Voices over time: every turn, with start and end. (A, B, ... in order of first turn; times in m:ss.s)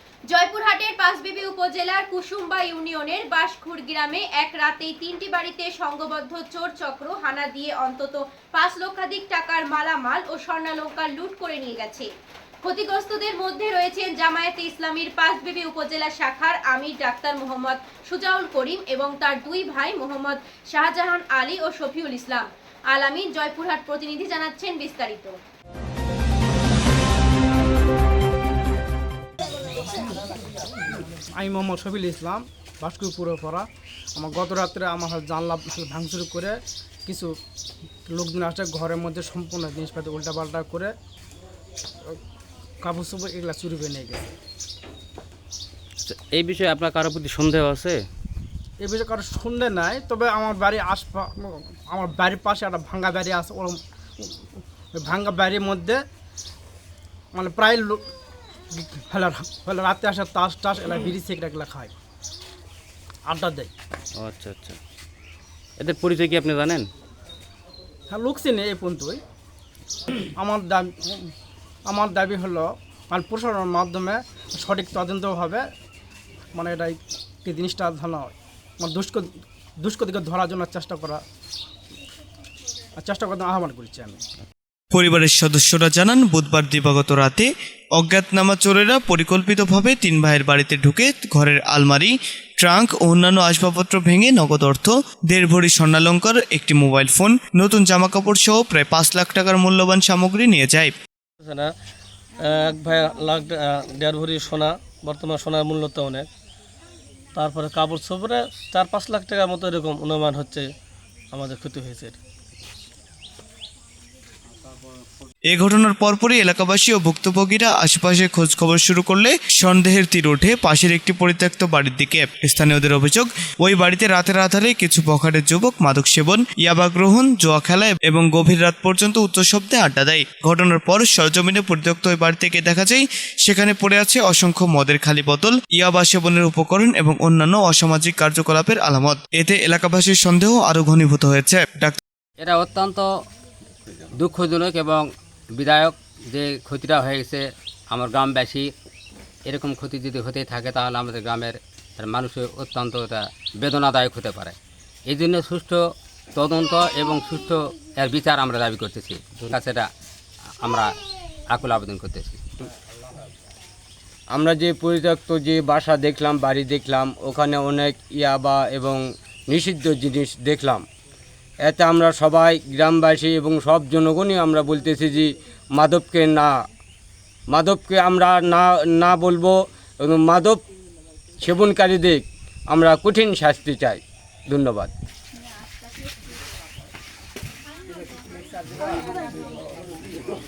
0:00.3-0:12.1 A
0:12.6-0:25.4 A
0:31.4-0:36.5 B
0:37.0-0:37.3 B
0:38.1-0:40.9 B
0:42.8-0:44.3 B
0:46.0-0:48.0 C
0:48.8-0:54.3 B
0:54.9-0:56.0 B
0:57.3-0:58.0 B
0:58.7-1:01.9 B
1:03.3-1:03.7 B
1:04.1-1:04.8 C
1:05.8-1:06.9 C
1:08.1-1:09.2 B
1:10.4-1:11.3 B
1:11.9-1:15.6 B
1:16.5-1:19.2 B
1:19.8-1:21.2 B
1:23.0-1:24.2 B
1:24.9-1:40.9 D
1:41.4-1:41.7 E
1:42.4-1:46.3 E
1:47.3-1:50.7 E
1:51.3-1:52.2 E
1:55.5-2:22.0 D
2:22.4-2:23.1 F
2:24.2-2:28.7 F
2:29.4-2:34.6 F
2:35.1-2:39.9 F
2:40.6-2:41.0 F
2:41.5-2:42.4 F
2:44.3-2:50.8 G
2:51.6-2:56.5 G
2:57.5-3:00.6 G
3:01.4-3:04.9 G